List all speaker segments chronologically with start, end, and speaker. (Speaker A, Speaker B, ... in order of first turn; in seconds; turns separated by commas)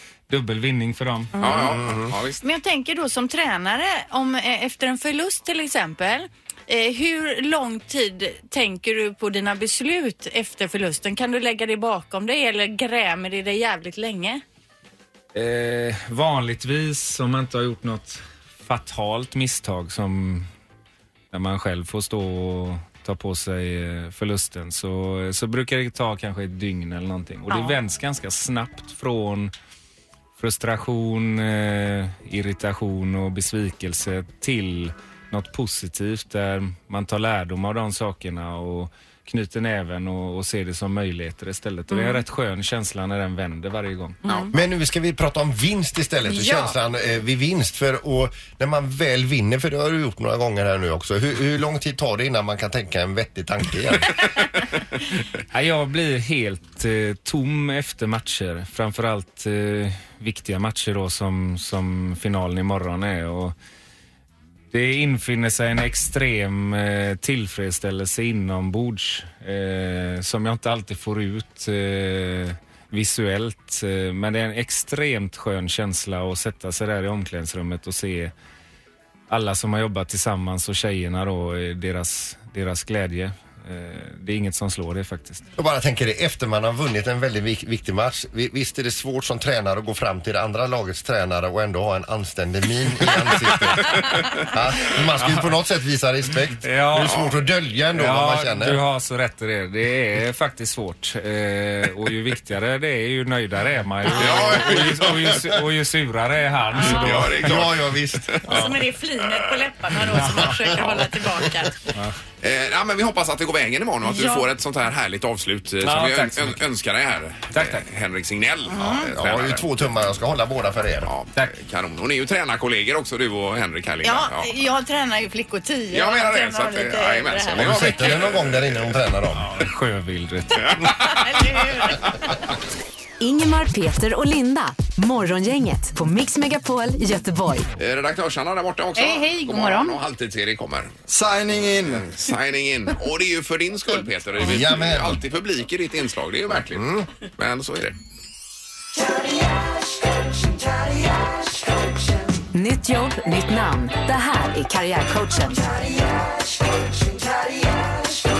Speaker A: 0.3-1.3, Speaker B: 1.4-1.8, Speaker C: 1.4-2.4, Speaker D: 1.5-2.1, Speaker B: 2.4-14.4, Speaker A: 15.3-20.5, Speaker A: 21.3-29.5, Speaker B: 27.5-27.8, Speaker A: 30.4-44.2, Speaker B: 41.9-42.2, Speaker C: 44.3-44.5, Speaker D: 44.5-54.1, Speaker B: 46.2-46.7, Speaker A: 55.4-63.5, Speaker A: 64.7-78.3, Speaker A: 79.3-85.4, Speaker D: 85.6-98.8, Speaker A: 96.6-97.2, Speaker C: 97.0-97.3, Speaker A: 97.9-107.4, Speaker C: 104.0-105.3, Speaker B: 106.7-107.3, Speaker C: 106.8-108.7, Speaker D: 107.1-108.8, Speaker B: 108.5-111.9, Speaker A: 110.1-110.6, Speaker C: 112.4-119.8, Speaker B: 114.0-114.5, Speaker A: 115.8-116.6, Speaker A: 117.5-117.8, Speaker B: 118.7-119.1, Speaker D: 119.2-121.1, Speaker C: 121.0-124.5, Speaker B: 124.0-128.2, Speaker C: 125.9-129.0, Speaker D: 127.5-129.5, Speaker A: 129.4-130.7, Speaker C: 130.6-132.0, Speaker B: 130.9-132.3, Speaker E: 133.2-137.6, Speaker C: 137.8-140.9, Speaker B: 138.9-140.0, Speaker C: 141.8-148.0, Speaker D: 144.4-145.2, Speaker D: 146.7-147.1, Speaker E: 152.5-155.7